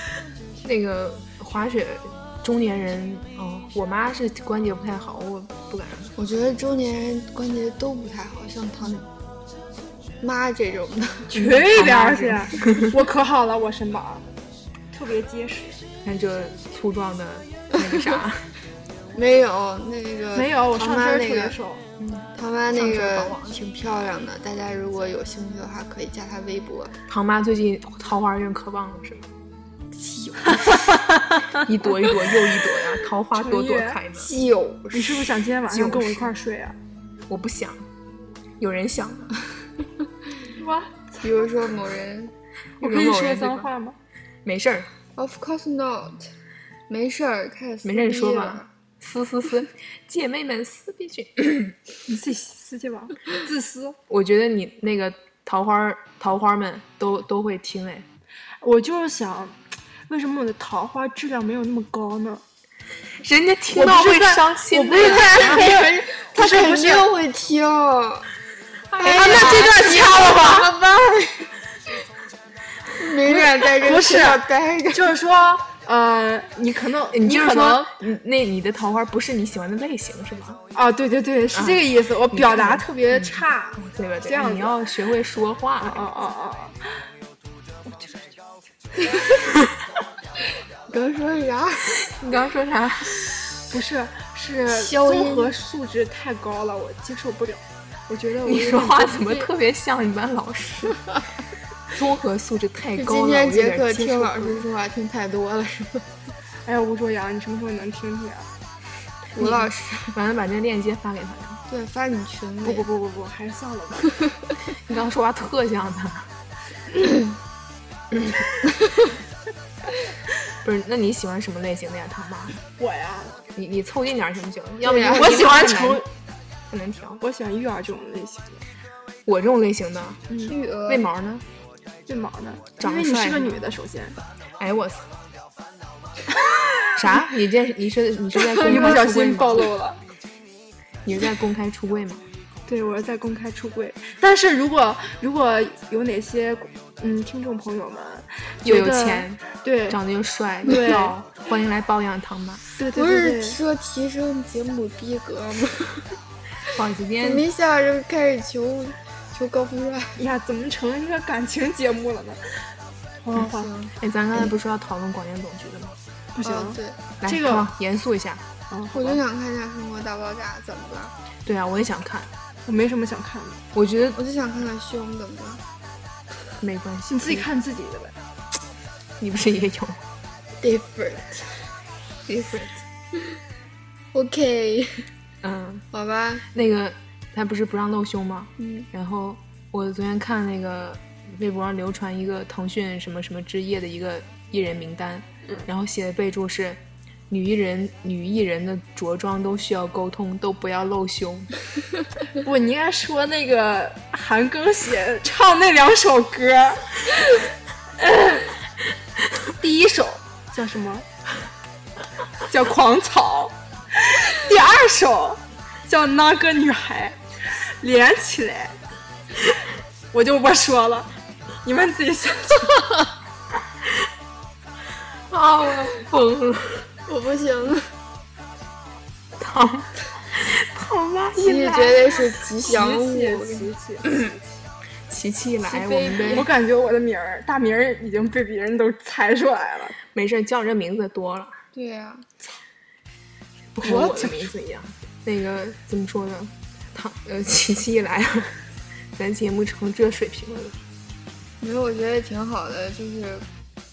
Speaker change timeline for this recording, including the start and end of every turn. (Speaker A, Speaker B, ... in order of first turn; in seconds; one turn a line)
Speaker A: 0.6-6.1
Speaker B: 6.2-9.1
Speaker B: 10.2-11.3
Speaker C: 11.3-14.2
Speaker A: 11.3-12.9
Speaker C: 14.9-15.8
Speaker A: 16.0-18.5
Speaker B: 19.1-21.6
Speaker C: 20.3-21.8
Speaker A: 22.0-23.4
Speaker B: 22.3-26.9
Speaker A: 27.1-29.3
Speaker B: 29.9-30.7
Speaker A: 31.6-34.3
Speaker C: 33.3-34.0
Speaker B: 34.2-35.3
Speaker C: 34.9-36.8
Speaker A: 35.7-36.3
Speaker A: 37.3-37.8
Speaker A: 38.6-39.3
Speaker C: 40.6-41.2
Speaker B: 41.2-42.3
Speaker C: 42.8-44.0
Speaker A: 42.8-43.7
Speaker A: 44.4-44.9
Speaker B: 45.1-46.3
Speaker B: 46.9-48.7
Speaker A: 47.8-51.8
Speaker C: 52.0-54.0
Speaker A: 54.1-58.0
Speaker C: 58.6-59.6
Speaker C: 60.1-62.4
Speaker A: 63.2-65.6
Speaker C: 63.7-67.1
Speaker B: 65.2-68.3
Speaker B: 68.9-71.5
Speaker C: 69.0-70.7
Speaker A: 69.0-69.7
Speaker B: 73.0-75.1
Speaker C: 73.2-77.9
Speaker A: 77.1-80.6
Speaker C: 80.7-84.8
Speaker A: 81.5-86.0
Speaker C: 85.8-86.8
Speaker C: 87.8-88.3
Speaker B: 90.9-91.9
Speaker A: 92.0-93.2
Speaker C: 93.7-99.4
Speaker B: 94.7-95.5
Speaker A: 98.4-101.0
Speaker A: 101.9-104.6
Speaker B: 103.0-106.1
Speaker C: 106.7-108.5
Speaker B: 109.3-110.1
Speaker A: 109.3-111.6
Speaker B: 111.7-112.8
Speaker C: 112.6-114.2
Speaker A: 114.8-116.3
Speaker A: 118.1-118.4
Speaker A: 120.6-122.6
Speaker C: 122.8-123.4
Speaker A: 123.5-126.0
Speaker B: 124.8-125.4
Speaker C: 125.1-126.1
Speaker A: 126.7-127.2
Speaker C: 127.2-128.6
Speaker A: 129.2-130.2
Speaker C: 130.3-130.6
Speaker B: 130.5-131.1
Speaker A: 130.8-131.4
Speaker C: 132.1-134.2
Speaker A: 132.8-133.6
Speaker A: 134.6-135.1
Speaker A: 136.9-139.7
Speaker C: 138.4-140.0
Speaker A: 141.0-142.2
Speaker C: 142.7-150.0
Speaker A: 148.6-152.6
Speaker C: 150.6-151.1
Speaker C: 152.8-153.6
Speaker B: 152.9-156.1
Speaker A: 156.7-157.4
Speaker B: 157.2-160.2
Speaker C: 160.2-162.7
Speaker C: 163.2-163.7
Speaker B: 163.4-163.9
Speaker A: 164.0-166.0
Speaker C: 166.3-167.7
Speaker B: 166.4-167.0
Speaker A: 167.2-168.4
Speaker C: 168.7-169.2
Speaker B: 168.9-171.1
Speaker A: 171.4-172.3
Speaker C: 172.7-173.6
Speaker A: 173.7-174.2
Speaker B: 174.2-175.6
Speaker A: 176.6-177.5
Speaker C: 177.1-178.1
Speaker A: 179.2-180.0
Speaker B: 180.6-181.7
Speaker A: 182.3-182.8
Speaker B: 184.1-185.1
Speaker A: 185.4-185.8
Speaker B: 185.9-186.4
Speaker A: 186.5-201.5
Speaker B: 188.6-188.9
Speaker C: 202.4-207.0
Speaker C: 208.0-208.5
Speaker C: 209.6-211.1
Speaker C: 212.5-218.8
Speaker C: 220.1-221.1
Speaker C: 221.6-222.8
Speaker A: 225.3-226.9
Speaker B: 227.1-227.9
Speaker A: 229.4-231.9
Speaker B: 231.3-233.7
Speaker C: 232.6-234.4
Speaker A: 235.1-236.5
Speaker B: 235.6-236.5
Speaker C: 236.3-240.0
Speaker A: 240.1-241.6
Speaker B: 241.7-242.2
Speaker A: 243.7-248.6
Speaker C: 243.8-244.5
Speaker A: 249.2-250.8
Speaker B: 251.6-253.4